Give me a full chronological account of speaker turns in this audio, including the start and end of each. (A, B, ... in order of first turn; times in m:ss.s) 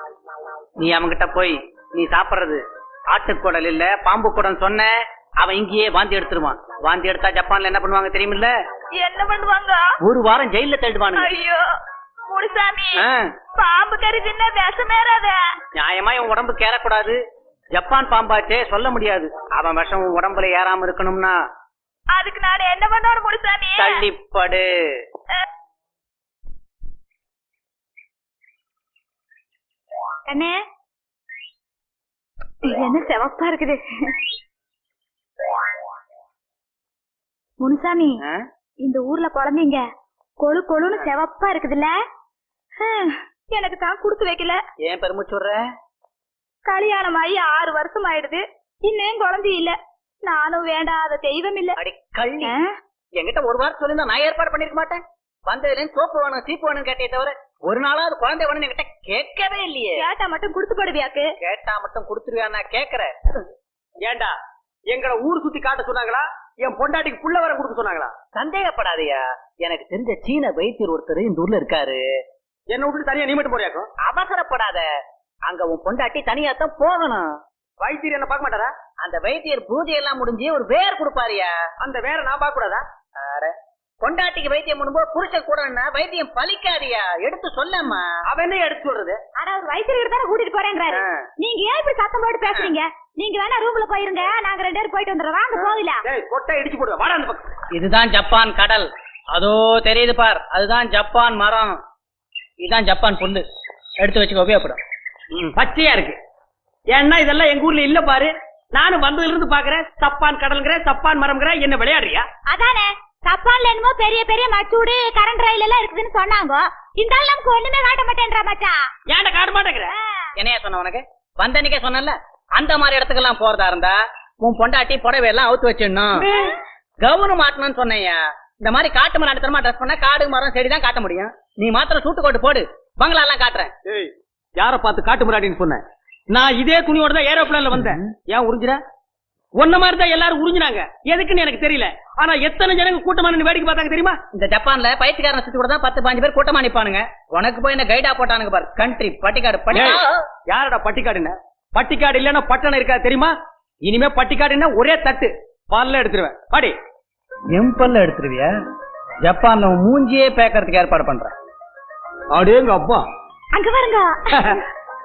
0:00.8-0:08.5 A
0:09.0-0:09.9 B
0:10.0-0:11.3 A
0:11.1-0:11.7 B
0:12.3-0:13.0 B
0:13.0-0:13.3 A
0:13.6-0:15.4 B
0:15.8-0:17.2 A
0:17.7-0:21.4 A
0:22.1-0:24.0 B
0:23.8-0:24.7 A
0:30.3-0:30.6 B
0:32.6-0:33.8 B
0:37.6-0:38.2 B
0:38.8-0:39.8 B
0:40.4-0:41.9 B
0:42.8-0:44.6 B
0:44.8-0:45.7 A
0:46.6-0:51.8 B
0:51.8-0:52.6 A
0:52.4-0:52.7 B
0:53.2-1:00.0 A
1:00.0-1:01.3 B
1:01.4-1:03.1 A
1:04.0-1:04.3 C
1:04.9-1:08.2 C
1:08.3-1:12.0 A
1:12.7-1:13.9 C
1:14.0-1:14.8 A
1:15.5-1:17.3 A
1:17.8-1:18.7 C
1:19.0-1:21.6 A
1:21.8-1:22.8 C
1:23.2-1:28.1 A
1:28.3-1:29.2 C
1:29.4-1:36.0 B
1:30.9-1:31.2 A
1:36.0-1:37.5 C
1:37.7-1:41.8 A
1:42.6-1:43.4 A
1:44.0-1:44.8 A
1:45.6-1:46.2 C
1:46.9-1:52.3 C
1:52.5-1:58.8 B
1:59.1-1:59.9 C
1:59.9-2:00.3 B
2:00.4-2:06.3 A
2:06.2-2:06.6 B
2:07.0-2:13.7 A
2:13.8-2:18.8 C
2:17.7-2:18.0 A
2:19.6-2:24.2 C
2:24.3-2:30.2 A
2:29.7-2:33.3 C
2:33.8-2:36.8 C
2:37.5-2:38.5 A
2:39.2-2:41.3 A
2:42.3-2:43.0 C
2:43.5-2:44.6 B
2:44.3-2:44.6 C